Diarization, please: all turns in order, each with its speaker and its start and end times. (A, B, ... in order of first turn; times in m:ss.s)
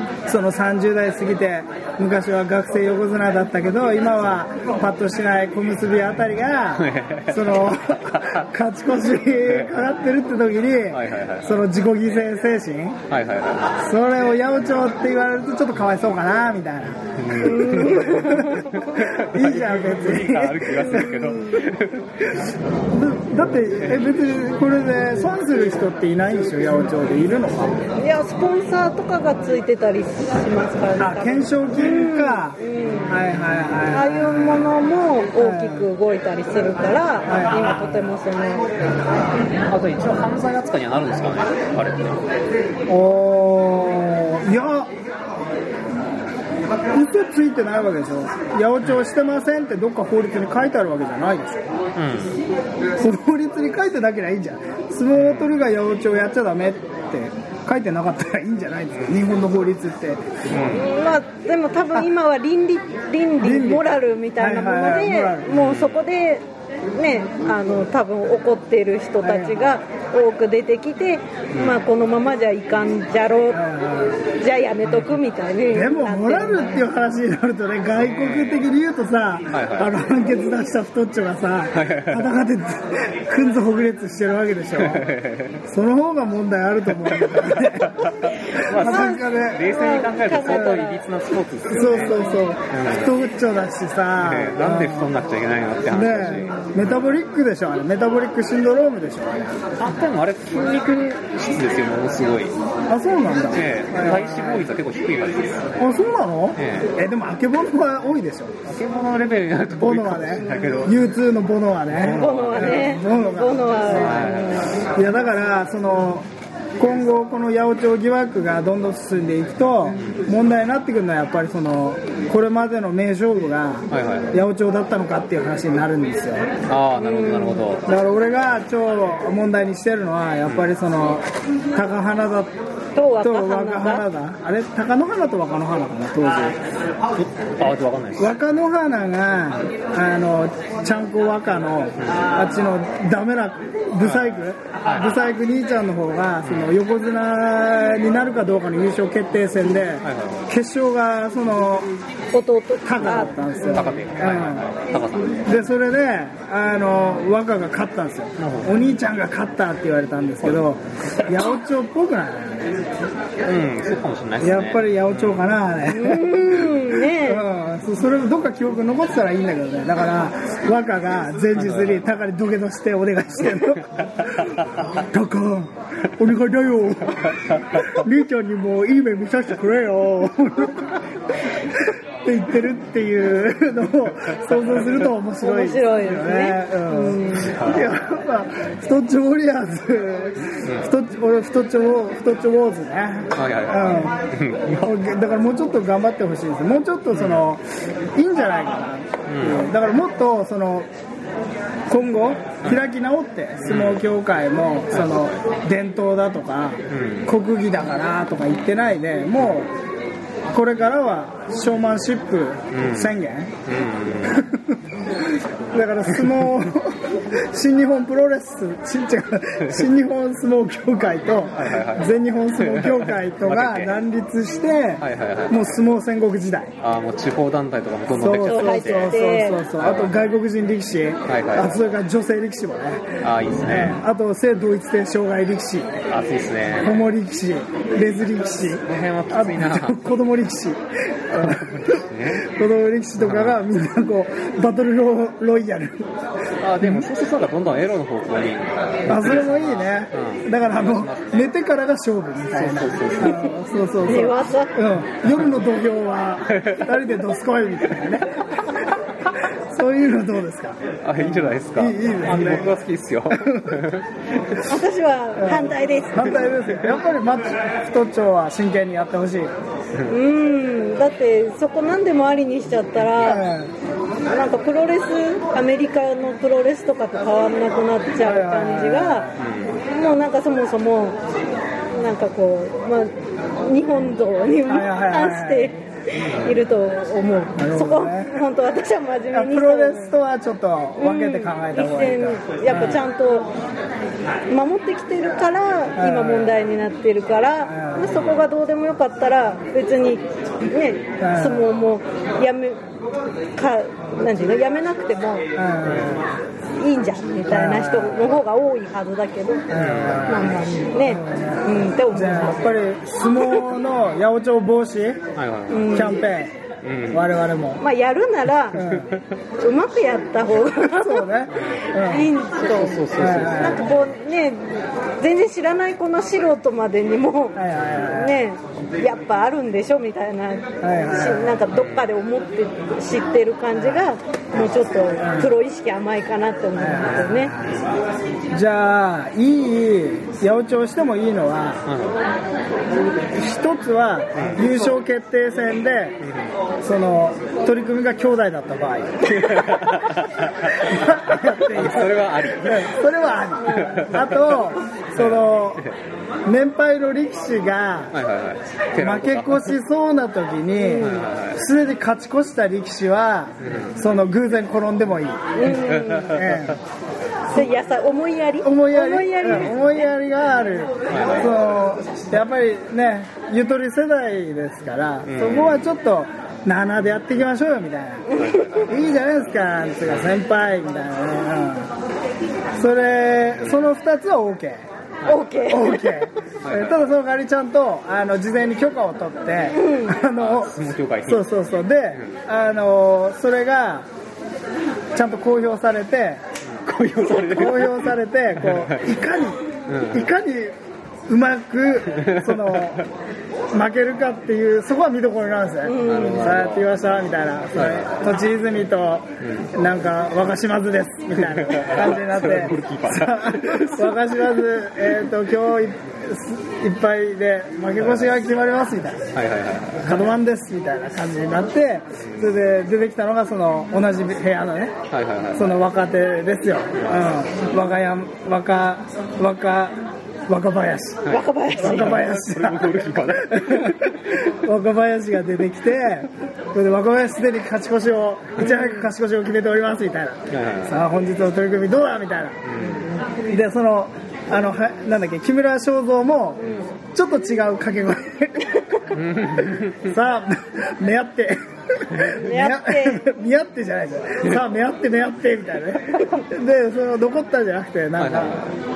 0:00.3-0:13.0 A
0:06.8-0:08.4 B
0:09.5-0:09.8 B
0:10.9-0:11.6 B
0:13.1-0:13.7 B
0:13.8-0:21.4 A
0:17.2-0:22.4 B
0:17.4-0:18.7 C
0:22.9-0:27.8 A
0:23.6-0:24.1 B
0:28.0-0:33.2 C
0:31.0-0:34.7 A
0:33.9-0:38.7 C
0:35.4-0:35.9 A
0:37.3-0:37.7 A
0:39.7-0:42.2 B
0:42.9-0:44.9 A
0:46.9-0:51.6 A
0:52.0-0:52.3 B
0:53.0-1:00.2 A
0:55.1-0:55.6 B
0:58.9-0:59.2 B
1:00.5-1:00.9 B
1:00.6-1:13.6 C
1:03.4-1:05.5 A
1:05.5-1:06.0 B
1:09.2-1:09.7 A
1:11.5-1:11.8 B
1:13.5-1:14.2 A
1:14.3-1:16.9 C
1:15.7-1:25.1 A
1:18.0-1:18.6 B
1:19.5-1:19.9 B
1:21.7-1:22.3 B
1:24.8-1:25.6 B
1:25.6-1:29.7 A
1:27.0-1:32.2 B
1:28.8-1:31.0 C
1:30.4-1:30.8 A
1:31.7-1:35.1 A
1:31.8-1:32.3 C
1:32.7-1:33.2 B
1:34.2-1:37.0 B
1:35.9-1:39.6 A
1:39.8-1:42.5 B
1:42.9-1:44.6 A
1:43.5-1:45.7 B
1:45.8-1:48.5 A
1:46.6-1:46.9 B
1:48.6-1:51.0 B
1:49.8-1:56.3 A
1:51.9-1:52.9 B
1:52.0-1:54.8 C
1:53.9-1:54.8 B
1:56.8-2:06.5 A
2:03.9-2:04.3 B
2:06.7-2:07.8 B
2:07.0-2:07.6 C
2:07.8-2:12.5 A
2:12.9-2:14.0 C
2:13.2-2:16.6 A
2:17.2-2:18.3 B
2:18.2-2:31.9 A
2:22.0-2:22.2 B
2:24.0-2:25.1 B
2:26.4-2:26.8 B
2:30.0-2:30.5 B
2:32.3-2:33.9 C
2:32.8-2:34.6 A
2:33.7-2:35.4 B
2:35.4-2:42.7 A
2:38.4-2:38.7 B
2:43.4-2:45.4 B
2:44.4-3:14.2 A
2:45.9-2:47.4 C
2:51.6-2:52.0 B
2:57.5-2:57.9 B
3:05.4-3:07.6 C
3:07.4-3:07.9 B
3:10.6-3:10.9 B
3:13.3-3:14.9 B
3:14.8-3:20.9 A
3:17.1-3:17.4 B
3:19.3-3:19.7 B
3:21.9-3:29.7 A
3:23.6-3:24.0 B
3:24.9-3:25.2 B
3:26.9-3:27.3 B
3:30.5-3:33.5 A
3:32.7-3:34.4 B
3:34.2-3:46.7 A
3:39.6-3:39.9 B
3:41.6-3:44.0 B
3:45.0-3:45.8 B
3:46.8-3:49.2 B
3:48.1-3:56.0 A
3:48.3-3:49.6 C
3:49.8-3:50.2 B
3:51.3-3:51.8 B
3:53.2-3:54.0 B
3:56.1-3:57.0 B
3:56.8-4:06.1 A
3:58.9-4:00.0 B
4:01.3-4:02.4 B
4:03.2-4:03.6 B
4:06.6-4:11.5 B
4:06.8-4:07.1 A
4:09.1-4:22.8 A
4:12.5-4:13.5 B
4:14.0-4:14.8 C
4:16.5-4:16.9 B
4:21.0-4:24.0 B
4:23.3-4:23.9 A
4:24.6-4:26.5 C
4:25.4-4:29.5 A
4:30.1-4:33.5 C
4:33.2-4:33.7 A
4:34.3-4:41.2 C
4:38.2-4:39.4 A
4:39.4-4:39.8 B
4:41.9-4:50.2 C
4:44.7-4:45.8 A
4:46.1-4:46.5 B
4:47.2-4:48.4 A
4:49.3-4:53.0 A
4:51.0-4:53.5 C
4:52.7-4:53.0 B
4:54.5-5:02.8 C
4:55.9-4:56.6 A
4:57.6-4:58.2 A
5:01.2-5:01.7 A
5:03.5-5:05.4 C
5:05.5-5:06.3 A
5:05.8-5:06.2 B
5:06.8-5:09.7 C
5:07.5-5:08.4 A
5:09.7-5:15.2 A
5:09.7-5:10.4 B
5:10.2-5:12.7 C
5:15.4-5:16.0 B
5:15.7-5:16.2 C
5:15.9-5:16.5 A
5:16.8-5:17.3 B
5:17.1-5:17.8 A
5:17.8-5:18.8 C
5:18.7-5:19.1 A
5:18.8-5:19.2 B
5:19.6-5:21.3 C
5:20.8-5:22.3 A
5:21.9-5:37.5 C
5:22.7-5:24.0 B
5:23.1-5:23.8 A
5:27.6-5:28.4 A
5:30.8-5:31.6 A
5:31.7-5:32.0 B
5:35.2-5:35.6 A
5:36.8-5:37.8 A
5:38.5-5:41.8 A
5:41.8-5:42.2 B
5:43.3-5:46.2 A
5:44.4-5:44.6 B
5:46.2-5:46.5 B
5:46.8-5:50.0 A
5:49.2-5:52.9 B
5:50.8-5:55.8 A
5:53.6-5:54.1 C
5:53.6-5:54.5 B
5:55.1-5:55.9 B
5:56.4-5:58.1 A
5:58.1-5:59.7 B
5:59.0-6:06.8 A
6:00.8-6:01.2 C
6:01.0-6:01.6 B
6:03.6-6:04.0 B
6:05.6-6:06.4 C
6:05.7-6:06.7 B
6:07.5-6:10.1 C
6:08.6-6:21.9 A
6:11.1-6:11.6 B
6:15.2-6:15.8 B
6:18.3-6:18.8 C
6:18.3-6:18.9 B
6:20.0-6:20.3 B
6:22.8-6:24.8 A
6:25.2-6:25.5 B
6:25.2-6:26.2 C
6:25.7-6:30.7 A
6:26.6-6:27.0 B
6:29.7-6:30.2 C
6:30.4-6:31.4 B
6:31.2-6:34.1 A
6:35.1-6:36.4 A
6:36.6-6:39.0 B
6:37.2-6:40.7 A
6:39.9-6:40.3 B
6:41.3-6:43.0 A
6:42.2-6:42.9 B
6:43.7-6:59.2 A
6:45.8-6:46.6 C
6:46.0-6:46.9 B
6:47.7-6:48.4 B
6:49.4-6:49.7 B
6:51.4-6:54.4 B
6:59.3-7:00.2 B
7:00.0-7:05.0 A
7:05.1-7:05.8 B
7:05.5-7:09.9 A
7:07.0-7:07.3 B
7:10.5-7:22.6 A
7:11.2-7:14.5 B
7:11.3-7:12.2 C
7:18.6-7:18.9 B
7:20.5-7:21.0 B
7:22.6-7:23.0 B
7:23.5-7:38.7 A
7:29.1-7:30.1 B
7:32.1-7:32.4 B
7:32.4-7:33.2 C
7:38.2-7:38.7 B